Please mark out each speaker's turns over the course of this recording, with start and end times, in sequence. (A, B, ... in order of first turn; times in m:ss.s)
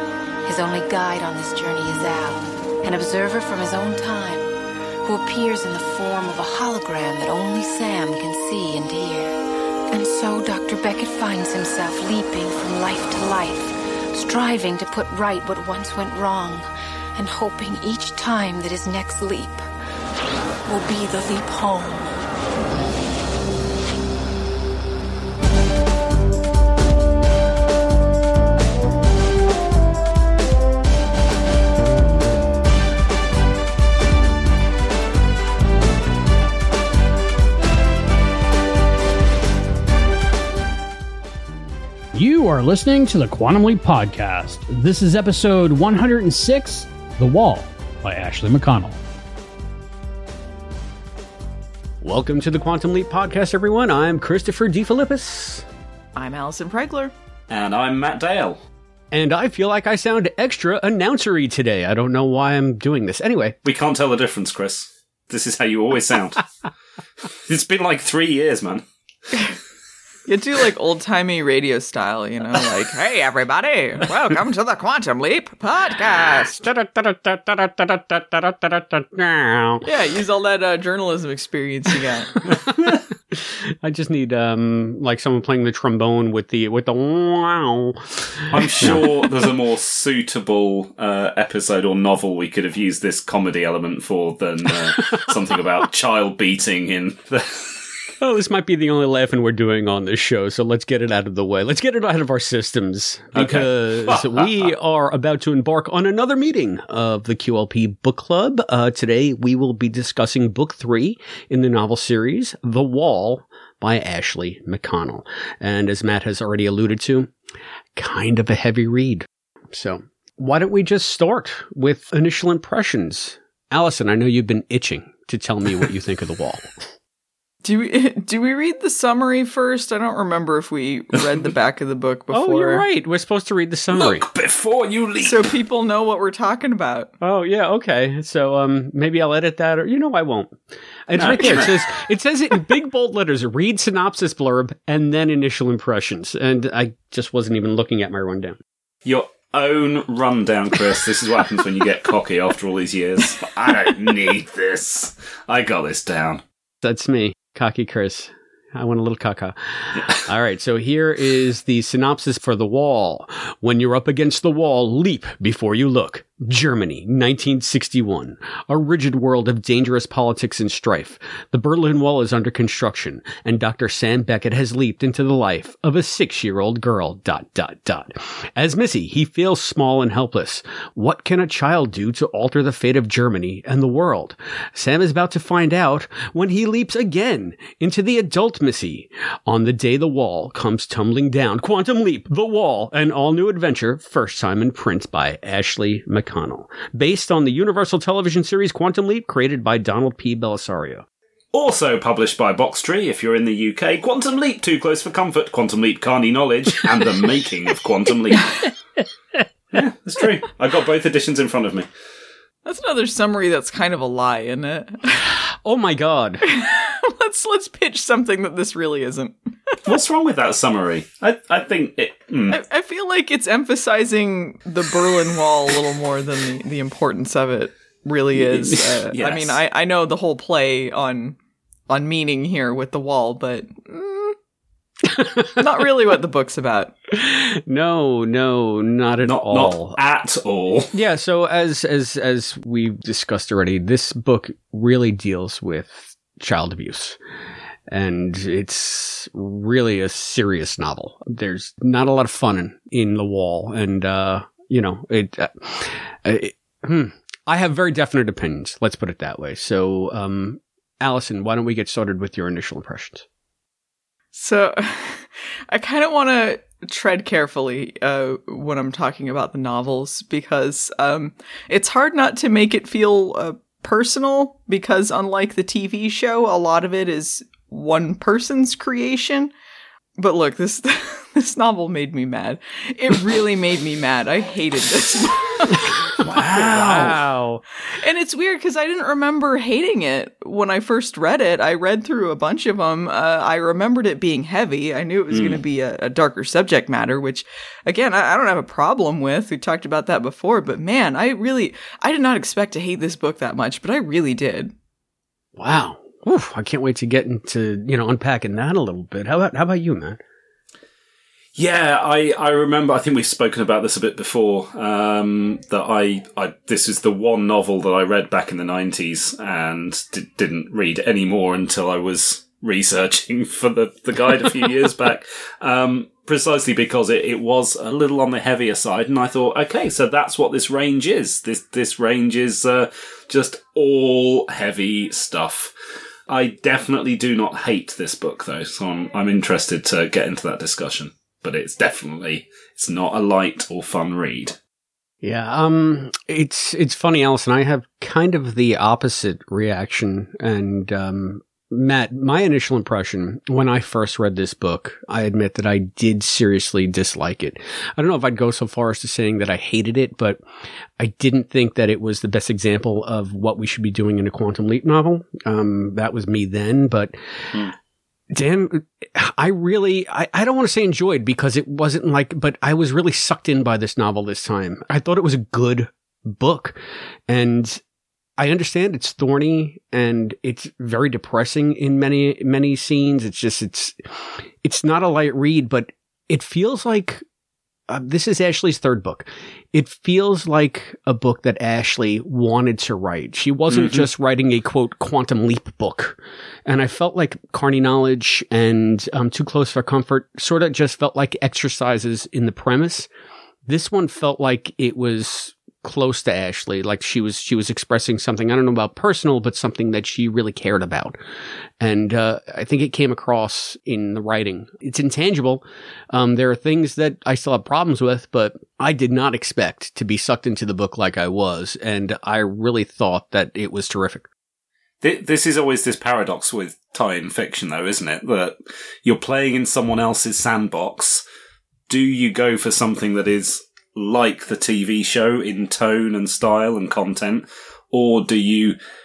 0:00.4-0:04.5 A
0:05.0-0:09.4 A
0:09.9-0:19.6 A
0:20.7-0:22.3 A
0:42.1-0:49.0 B
0:52.0-0:55.6 C
0:56.2-0:57.1 D
0:57.5-0:58.6 E
0:59.1-1:03.6 C
1:03.6-1:06.4 E
1:07.4-1:08.8 E
1:10.3-1:16.6 D
1:16.5-1:19.9 C
1:19.8-1:22.4 D
1:23.3-1:29.2 C
1:28.5-1:37.9 E
1:38.2-1:57.3 C
1:43.4-1:44.7 E
1:58.0-2:06.8 C
2:07.6-2:12.8 D
2:12.3-2:14.3 C
2:13.9-2:15.5 E
2:15.2-2:17.1 D
2:17.2-2:28.6 C
2:21.2-2:21.8 E
2:29.0-2:36.4 E
2:36.8-3:21.0 C
3:21.5-3:28.7 E
3:29.7-3:31.9 E
3:32.6-3:35.2 D
3:35.6-3:36.5 C
3:36.4-3:39.9 D
3:39.8-3:42.6 E
3:42.5-3:51.4 D
3:48.4-3:49.6 E
3:51.9-3:54.4 D
3:55.4-3:56.9 D
3:57.1-4:00.0 C
3:59.2-4:00.9 E
4:00.9-4:07.2 C
4:07.9-4:23.2 C
4:24.3-4:39.5 D
4:40.2-4:46.0 D
4:46.2-4:47.6 C
4:46.2-4:47.2 E
4:47.9-5:04.7 D
4:55.3-4:55.6 E
5:05.6-5:10.2 C
5:11.6-5:35.7 E
5:36.3-5:44.6 E
5:45.2-6:00.4 C
6:01.0-6:07.5 C
6:08.3-6:17.8 C
6:18.4-6:24.1 C
6:24.6-6:27.2 C
6:27.9-6:43.1 C
6:33.7-6:34.1 E
6:43.7-6:51.2 C
6:51.8-7:04.3 C
7:05.0-7:11.2 E
7:11.9-7:18.8 E